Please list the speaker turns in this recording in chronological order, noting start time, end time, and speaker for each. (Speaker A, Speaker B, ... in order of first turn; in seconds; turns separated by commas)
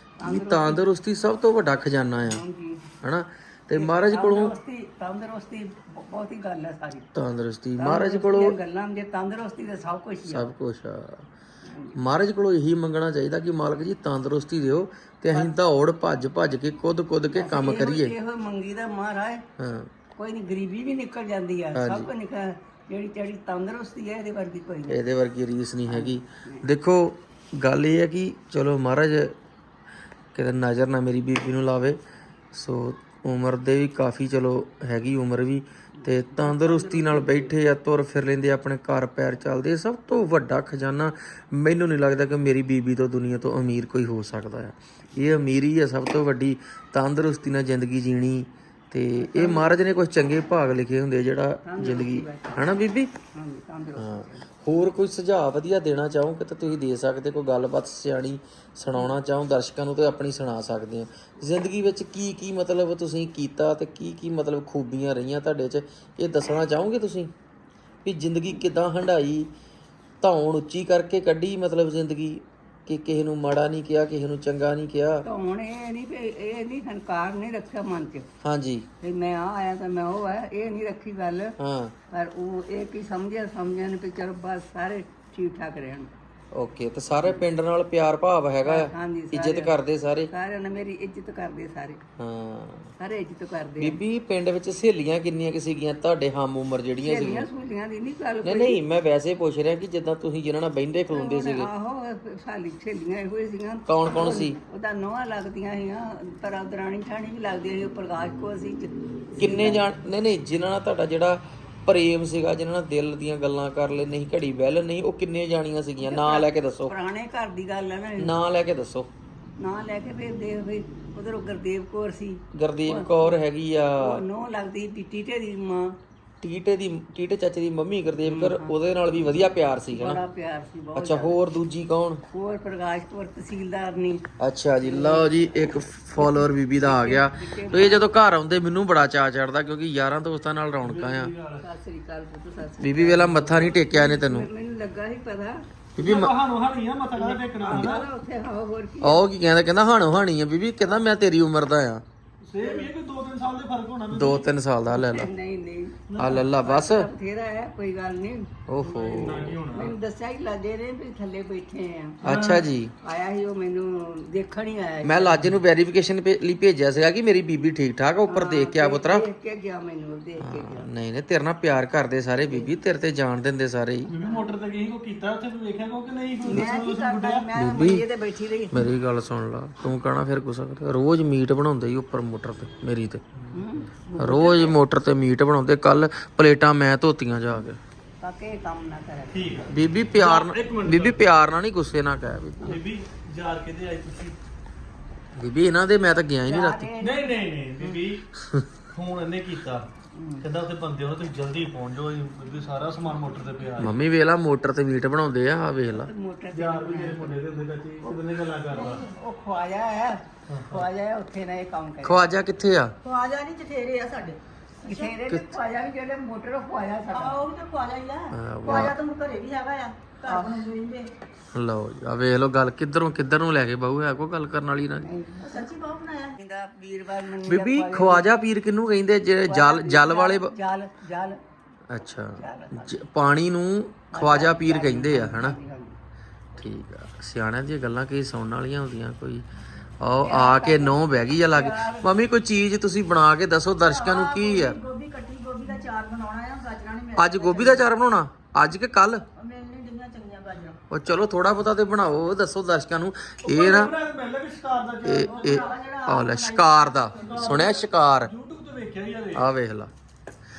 Speaker A: 0.2-0.9, Speaker B: 0.2-2.4, Speaker A: 2.2-2.9, Speaker B: 3.0-4.5, Speaker A: 3.7-7.1, Speaker B: 7.1-8.6, Speaker A: 7.8-10.5, Speaker B: 10.2-11.3, Speaker A: 11.6-12.0, Speaker B: 11.9-18.1, Speaker A: 17.3-19.4, Speaker B: 19.6-19.9, Speaker A: 20.1-25.0, Speaker B: 21.7-22.1, Speaker B: 24.9-29.4, Speaker A: 25.9-26.6, Speaker B: 30.3-32.0, Speaker B: 32.5-53.1, Speaker A: 36.0-37.5, Speaker A: 49.2-49.7, Speaker A: 51.6-54.5, Speaker B: 54.0-67.3, Speaker B: 68.0-69.5, Speaker B: 70.2-75.2, Speaker A: 75.2-78.3, Speaker B: 78.4-78.9, Speaker A: 79.0-81.5, Speaker B: 81.6-81.9, Speaker A: 82.1-86.1, Speaker B: 86.5-90.3, Speaker A: 88.6-89.8, Speaker A: 90.3-92.0, Speaker B: 92.2-92.9, Speaker A: 93.0-94.0, Speaker B: 93.8-97.5, Speaker A: 97.0-98.8, Speaker B: 98.4-101.7, Speaker A: 101.1-109.8, Speaker B: 103.9-104.6, Speaker B: 109.4-116.9, Speaker A: 116.0-118.3, Speaker B: 118.2-119.1, Speaker A: 119.6-123.4, Speaker B: 122.5-124.2, Speaker A: 124.0-126.0, Speaker B: 126.4-130.2, Speaker A: 128.2-128.7, Speaker A: 129.9-131.4, Speaker B: 130.9-132.2, Speaker A: 132.3-134.2, Speaker B: 134.4-141.3, Speaker A: 134.8-138.1, Speaker C: 140.8-141.7, Speaker A: 141.6-145.6, Speaker B: 142.8-144.5, Speaker B: 145.9-146.3, Speaker C: 146.0-148.1, Speaker A: 147.1-149.2, Speaker B: 149.0-152.0, Speaker C: 152.4-154.5, Speaker A: 152.6-152.9, Speaker B: 154.1-155.3, Speaker A: 154.9-158.6, Speaker C: 156.1-156.4, Speaker B: 156.2-157.1, Speaker B: 158.7-159.6, Speaker C: 158.8-159.9, Speaker A: 159.7-162.2, Speaker C: 162.2-162.6, Speaker B: 162.2-162.9, Speaker A: 163.0-165.6, Speaker B: 165.0-169.2, Speaker A: 168.3-170.9, Speaker B: 170.4-174.1, Speaker C: 174.1-177.5, Speaker A: 174.2-174.5, Speaker A: 176.4-178.9, Speaker D: 176.5-177.0, Speaker B: 177.5-178.0, Speaker B: 178.7-183.2, Speaker A: 183.5-184.8, Speaker B: 184.2-187.8, Speaker A: 188.2-189.6, Speaker C: 189.3-191.3, Speaker B: 189.7-192.8, Speaker C: 192.6-194.4, Speaker B: 195.3-196.9, Speaker A: 196.4-198.0, Speaker C: 197.0-198.2, Speaker C: 198.9-199.8, Speaker A: 200.1-200.5, Speaker C: 200.4-204.0, Speaker B: 203.8-206.1, Speaker A: 205.9-207.4, Speaker C: 206.5-209.0, Speaker D: 208.7-209.1, Speaker A: 208.7-212.2, Speaker C: 210.5-210.8, Speaker B: 212.0-212.9, Speaker D: 213.0-215.2, Speaker A: 214.8-217.4, Speaker B: 215.3-215.6, Speaker D: 217.1-221.1, Speaker B: 218.3-218.9, Speaker A: 220.3-220.6, Speaker B: 221.5-225.1, Speaker A: 225.0-225.7, Speaker D: 225.4-226.4, Speaker A: 226.3-228.3, Speaker B: 227.4-230.5, Speaker A: 229.4-231.4, Speaker B: 231.9-235.6, Speaker A: 232.3-233.0, Speaker A: 234.1-235.9, Speaker B: 236.6-239.4, Speaker B: 240.0-244.8, Speaker A: 240.2-242.2, Speaker D: 243.8-247.9, Speaker B: 247.2-249.2, Speaker D: 249.3-250.8, Speaker B: 250.9-253.9, Speaker C: 253.4-255.7, Speaker B: 255.0-258.3, Speaker D: 255.3-257.7, Speaker C: 257.2-259.5, Speaker B: 259.3-259.9